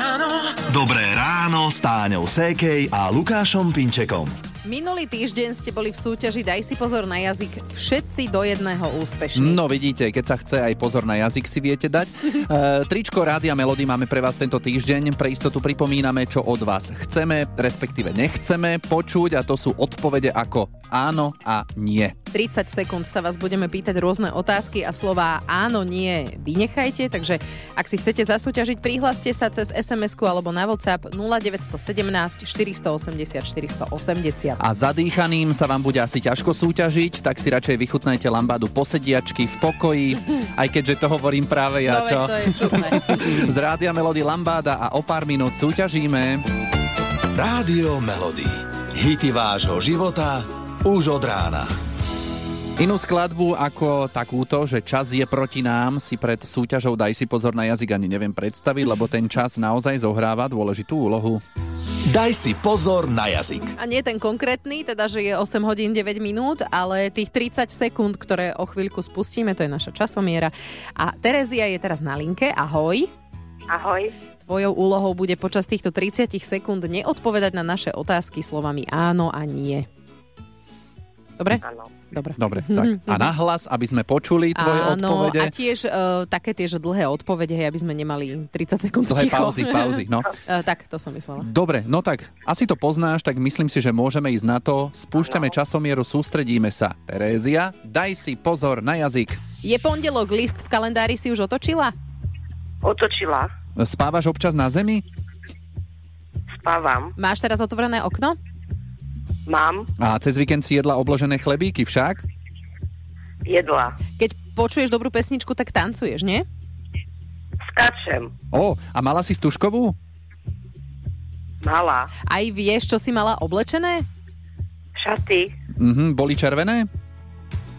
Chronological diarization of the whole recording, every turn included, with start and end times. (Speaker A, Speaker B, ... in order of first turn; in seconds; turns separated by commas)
Speaker A: 0.7-4.3, Speaker B: 4.7-9.6, Speaker C: 9.4-22.2, Speaker B: 22.3-34.6, Speaker C: 34.6-46.4, Speaker B: 41.9-43.4, Speaker A: 47.4-51.7, Speaker C: 52.8-61.4, Speaker A: 62.1-63.7, Speaker B: 63.8-73.1, Speaker D: 73.7-74.1, Speaker B: 74.4-79.9, Speaker B: 81.4-83.3, Speaker D: 81.6-81.9, Speaker C: 82.4-85.5, Speaker B: 84.5-91.5, Speaker C: 89.1-90.3, Speaker C: 91.4-99.4, Speaker D: 95.2-95.6, Speaker B: 99.6-101.9, Speaker D: 102.8-103.5, Speaker C: 103.8-105.0, Speaker D: 106.5-107.1, Speaker B: 107.2-108.4, Speaker D: 109.5-109.9, Speaker C: 110.0-112.2, Speaker D: 113.5-113.9, Speaker B: 114.2-116.5, Speaker D: 117.7-118.3, Speaker C: 118.5-120.0, Speaker D: 121.6-122.1, Speaker B: 122.3-124.0, Speaker D: 125.0-125.5, Speaker C: 125.8-126.9